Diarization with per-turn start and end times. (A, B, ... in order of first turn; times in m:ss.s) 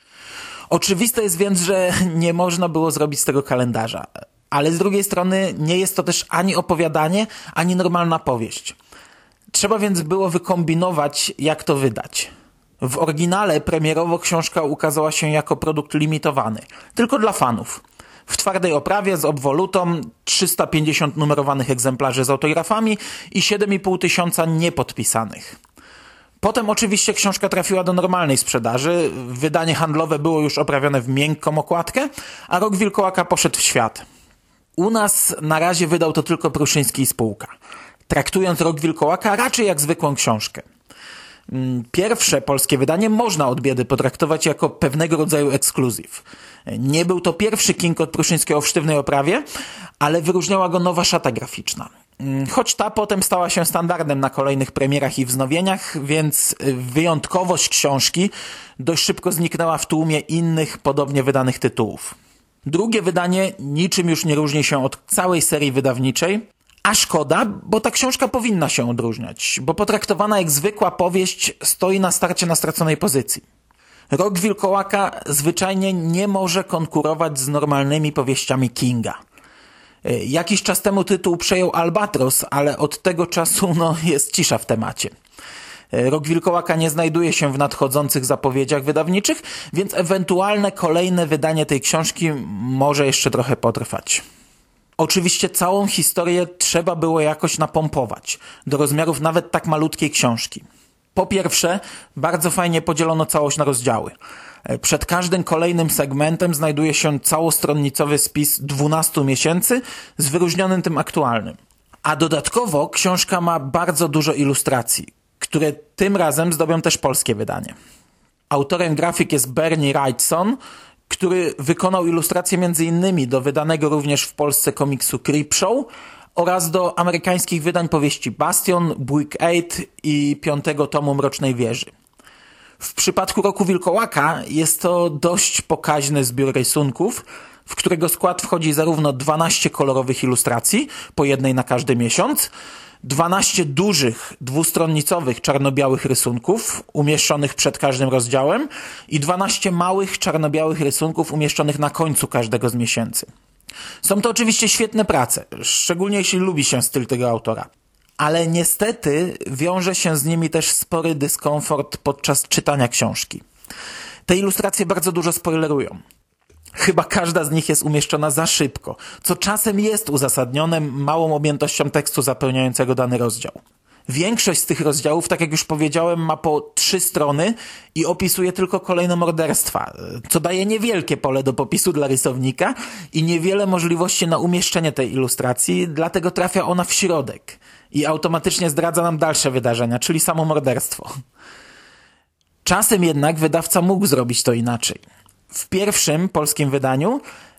0:00.7-0:08.8 A
0:09.5-0:12.3 A
0:12.8-0:25.6 A
0:26.4-0:34.0 A
0:34.8-0:37.5 A
0:38.1-0:40.6 A
0:41.5-0:49.4 A
0:50.0-1:02.1 A
1:02.6-1:13.4 A
1:14.1-1:19.2 A
1:20.0-1:25.1 A
1:25.9-1:34.2 A
1:35.0-1:44.1 A
1:44.7-1:57.7 A
1:58.5-2:00.6 A
2:01.1-2:11.9 A
2:12.8-2:22.5 A
2:23.0-2:33.3 A
2:34.0-2:37.7 A
2:38.2-2:43.4 A
2:44.3-2:46.0 A
2:46.8-3:11.1 A
3:12.6-3:17.2 A